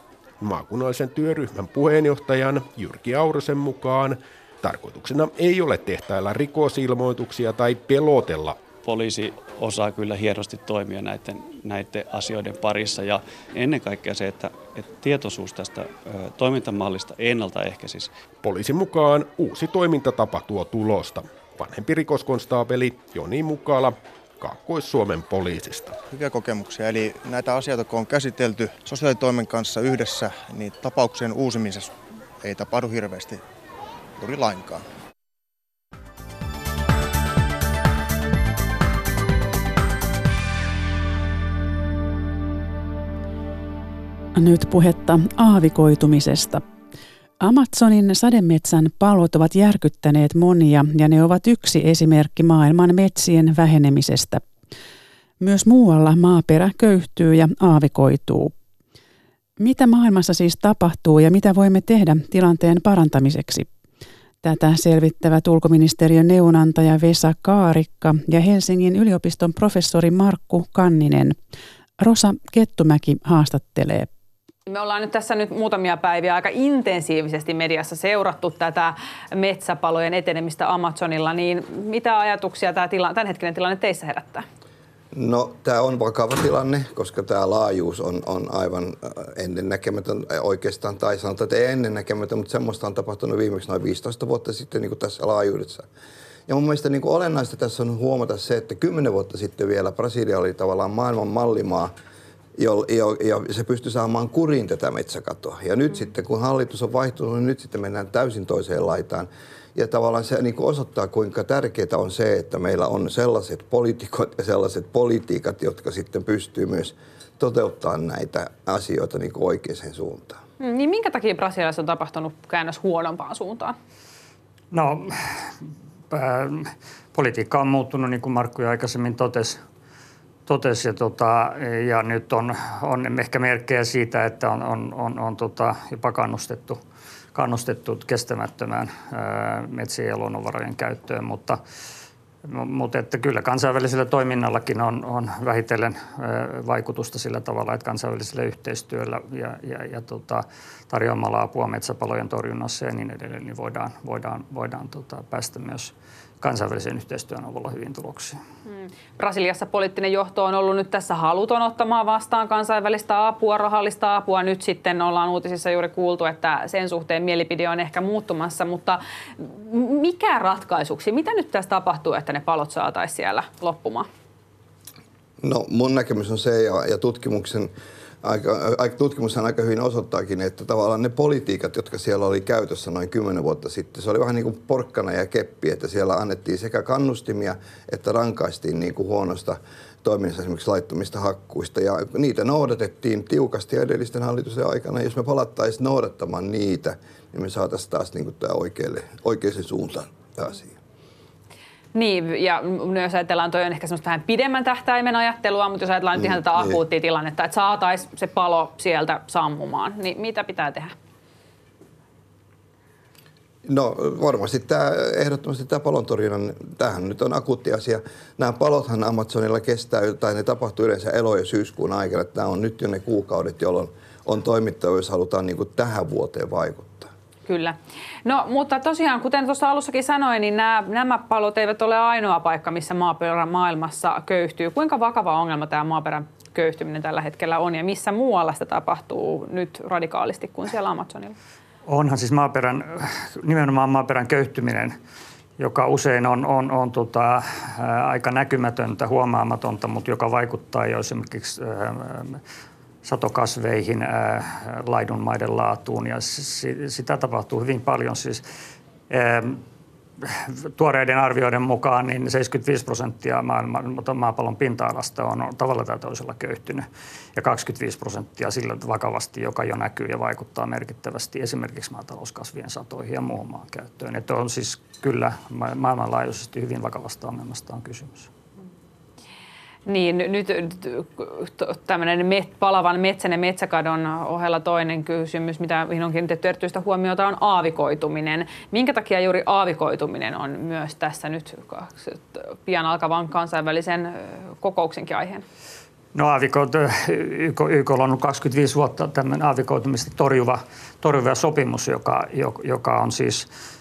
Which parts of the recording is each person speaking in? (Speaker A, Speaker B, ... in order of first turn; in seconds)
Speaker A: 0.4-8.6, 18.4-25.9
Speaker B: 8.8-18.2
Speaker C: 26.1-33.4, 34.2-34.8
Speaker D: 44.4-46.6, 47.4-54.4, 55.4-58.5, 59.6-63.7, 64.4-71.3, 72.0-74.1
Speaker E: 74.7-84.4, 120.6-123.7, 158.7-174.1, 201.9-210.9, 227.4-241.3, 279.9-295.4
Speaker F: 85.1-95.9, 96.5-101.9, 102.6-120.4, 175.4-177.7, 178.2-200.8, 206.2-206.8, 213.6-227.1
Speaker G: 124.7-125.5, 126.1-129.6, 130.4-136.8, 137.3-141.6, 142.4-158.4, 241.9-244.9, 245.6-252.4, 253.0-258.4, 259.1-259.6, 260.3-278.3, 296.1-303.5